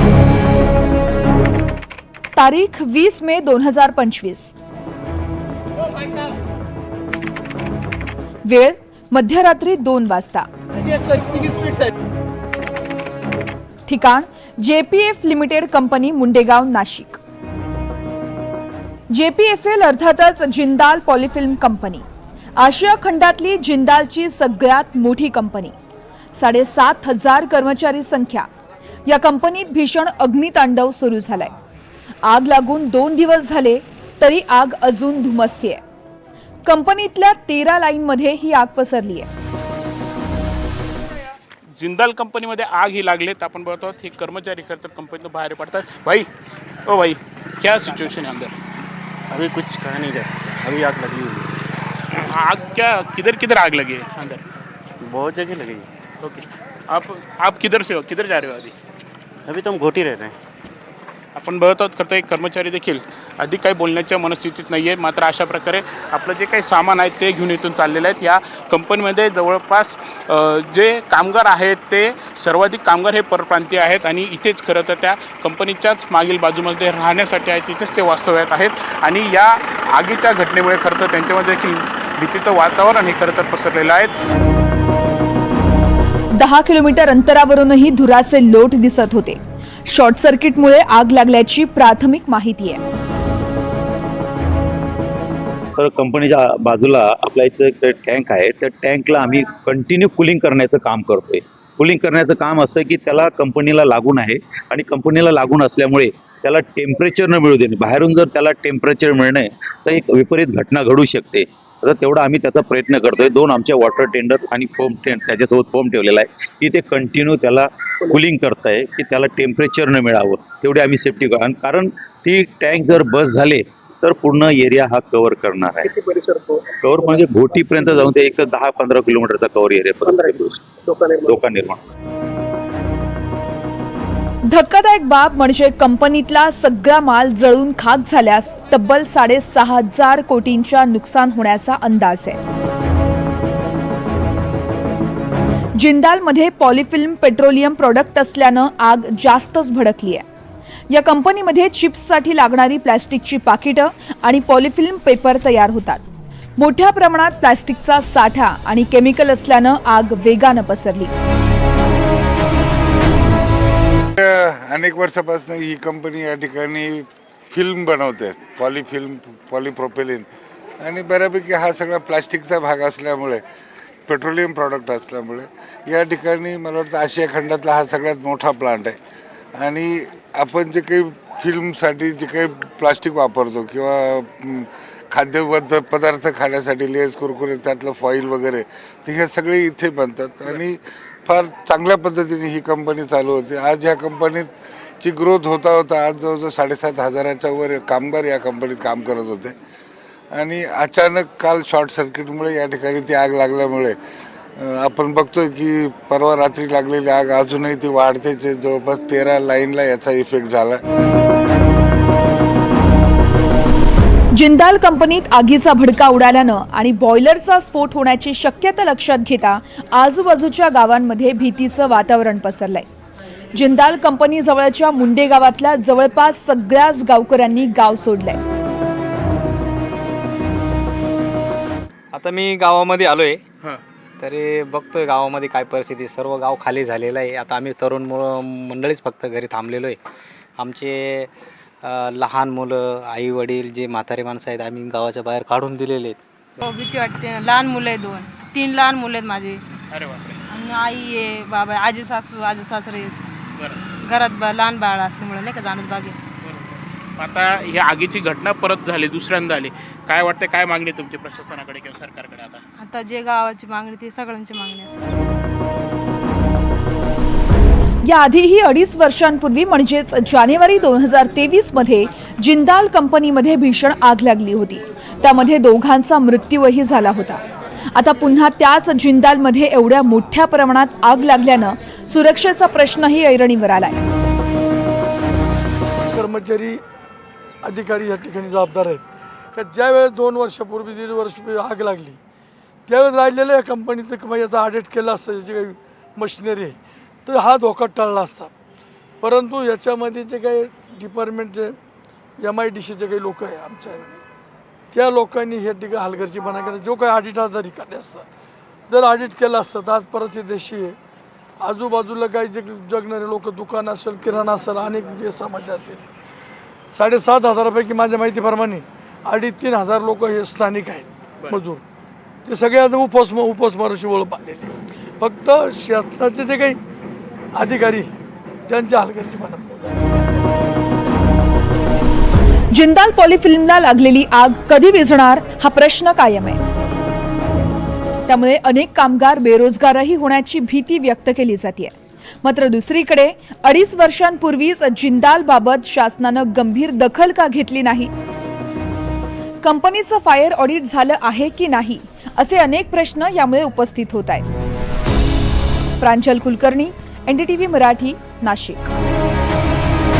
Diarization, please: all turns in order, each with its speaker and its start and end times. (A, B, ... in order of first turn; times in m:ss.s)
0:02.4-0:04.5 A
0:08.5-0:10.5 A
0:13.9-0:17.2 A
0:19.1-0:22.0 A
0:22.6-0:25.8 A
0:26.3-0:28.5 A
0:29.1-0:31.5 A
0:32.3-0:35.8 A
0:36.6-0:39.3 A
0:41.7-0:46.3 B
0:46.8-0:48.6 B
0:49.3-0:51.5 C
0:52.2-0:54.4 B
0:55.0-0:55.9 C
0:56.2-0:58.8 B
0:59.4-1:00.4 C
1:01.3-1:24.1 B
1:26.4-1:32.8 A
1:35.8-2:06.0 D
2:06.8-2:11.8 D
2:14.5-2:22.4 A
2:25.8-2:30.2 A
2:30.9-2:36.0 A
2:36.6-2:41.1 A
2:44.2-2:50.2 E
2:50.8-2:53.4 E
2:54.1-2:59.0 E
2:59.6-3:14.5 E
3:15.0-3:19.5 E
3:20.3-3:24.0 E
3:24.6-3:30.8 E
3:34.3-3:42.9 A
3:43.6-3:48.4 A
3:52.1-3:53.4 F
3:54.2-4:00.0 F
4:00.6-4:01.3 F
4:01.8-4:06.2 F
4:06.6-4:09.6 G
4:09.9-4:10.4 B
4:10.5-4:13.2 G
4:14.0-4:16.2 G
4:16.4-4:22.6 B
4:22.8-4:25.2 G
4:28.0-4:37.4 A
4:38.0-4:44.0 A
4:46.1-4:46.8 H
4:47.6-4:49.0 H
4:49.5-4:52.2 H
4:52.9-4:58.5 H
4:59.2-5:01.7 H
5:02.4-5:04.1 H
5:04.9-5:08.2 H
5:08.9-5:11.0 H
5:11.6-5:16.0 H
5:16.9-5:21.8 H
5:22.4-5:26.8 H
5:27.5-5:28.1 H
5:28.7-5:30.0 H
5:32.7-5:36.6 A
5:38.3-5:48.1 A
5:49.6-5:54.5 A
5:56.0-5:58.9 A